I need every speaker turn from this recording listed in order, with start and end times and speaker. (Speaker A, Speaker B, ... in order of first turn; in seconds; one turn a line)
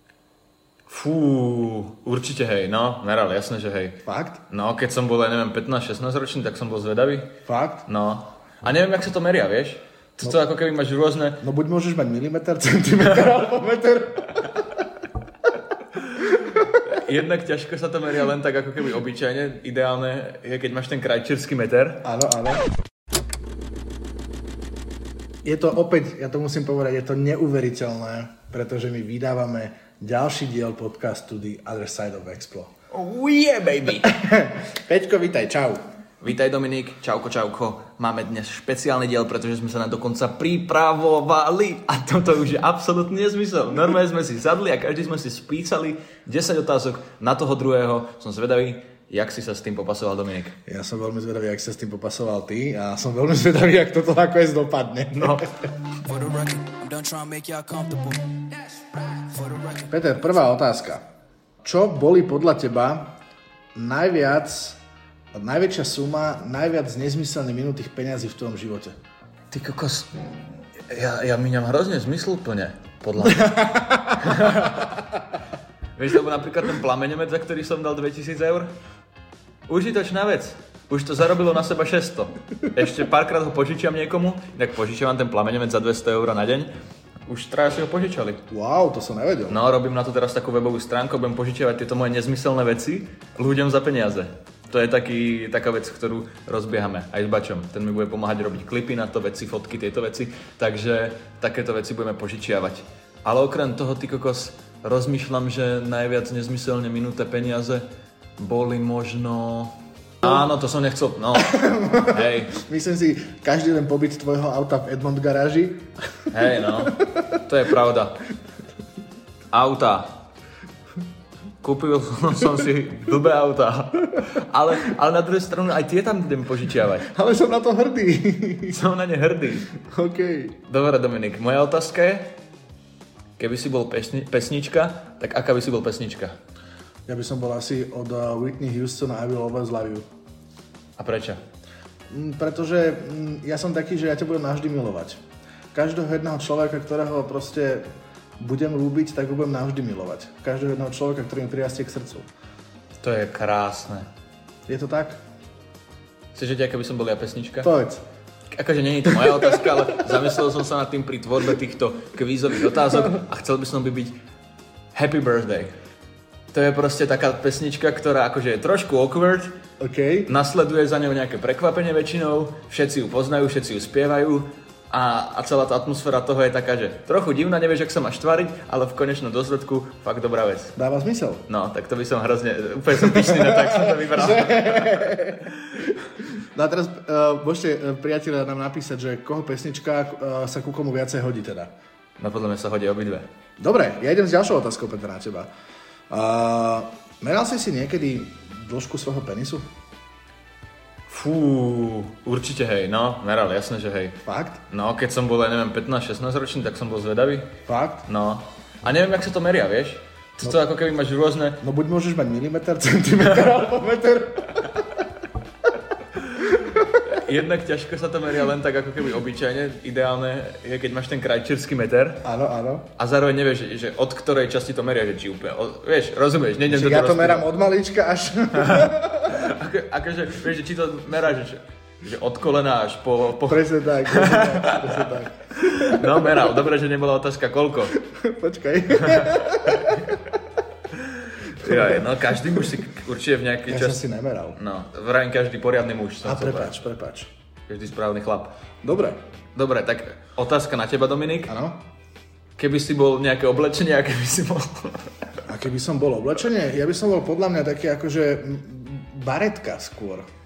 Speaker A: 0.9-7.3
Speaker B: 4.0-4.4
Speaker B: 7.5-7.9
Speaker A: 7.9-11.4
Speaker B: 11.4-14.5
Speaker A: 16.1-22.0
Speaker B: 22.0-22.6
Speaker B: 25.4-32.7
Speaker A: 32.9-34.1
Speaker B: 34.1-35.8
Speaker A: 36.2-50.6
Speaker B: 50.7-55.5
Speaker A: 55.1-55.5
Speaker C: 56.0-59.9
Speaker B: 59.9-61.0
Speaker B: 61.6-63.1
Speaker B: 63.8-64.8
Speaker B: 65.3-69.0
Speaker A: 69.5-70.1
Speaker A: 70.8-73.7
Speaker B: 73.3-74.5
Speaker A: 74.2-74.9
Speaker A: 76.0-78.7
Speaker A: 79.7-86.7
Speaker A: 87.3-88.4
Speaker B: 88.5-89.6
Speaker A: 89.5-107.9
Speaker A: 108.4-112.5
Speaker B: 111.4-115.9
Speaker A: 116.3-118.2
Speaker A: 119.5-120.1
Speaker A: 121.6-127.1
Speaker B: 127.1-128.8
Speaker A: 128.7-129.7
Speaker B: 129.8-130.6
Speaker A: 130.6-132.3
Speaker A: 133.4-136.3
Speaker B: 137.1-140.1
Speaker A: 141.0-141.4
Speaker B: 142.1-145.2
Speaker B: 145.7-147.9
Speaker B: 148.4-152.3
Speaker A: 153.0-154.1
Speaker B: 154.7-155.2
Speaker A: 156.3-157.7
Speaker B: 157.6-158.0
Speaker A: 158.5-164.2
Speaker A: 164.9-165.8
Speaker A: 166.5-169.5
Speaker B: 169.8-170.3
Speaker A: 170.3-180.8
Speaker B: 180.8-181.4
Speaker A: 181.5-185.2
Speaker B: 183.1-191.7
Speaker A: 192.2-193.3
Speaker B: 193.6-195.5
Speaker B: 196.1-199.7
Speaker A: 201.1-207.5
Speaker B: 204.3-204.6
Speaker B: 207.7-208.1
Speaker A: 208.1-211.6
Speaker B: 211.6-214.9
Speaker A: 216.5-222.2
Speaker B: 216.5-217.0
Speaker B: 222.2-222.9
Speaker A: 223.0-227.5
Speaker B: 226.7-229.5
Speaker A: 228.6-238.0
Speaker B: 233.5-236.2
Speaker B: 238.0-240.3
Speaker A: 239.0-240.0
Speaker A: 240.9-244.0
Speaker B: 241.6-242.0
Speaker B: 243.7-244.6
Speaker A: 244.6-246.7
Speaker B: 246.2-247.3
Speaker A: 247.7-248.5
Speaker B: 248.8-249.2
Speaker A: 249.6-251.5
Speaker B: 251.5-251.8
Speaker A: 252.6-255.1
Speaker B: 255.5-260.3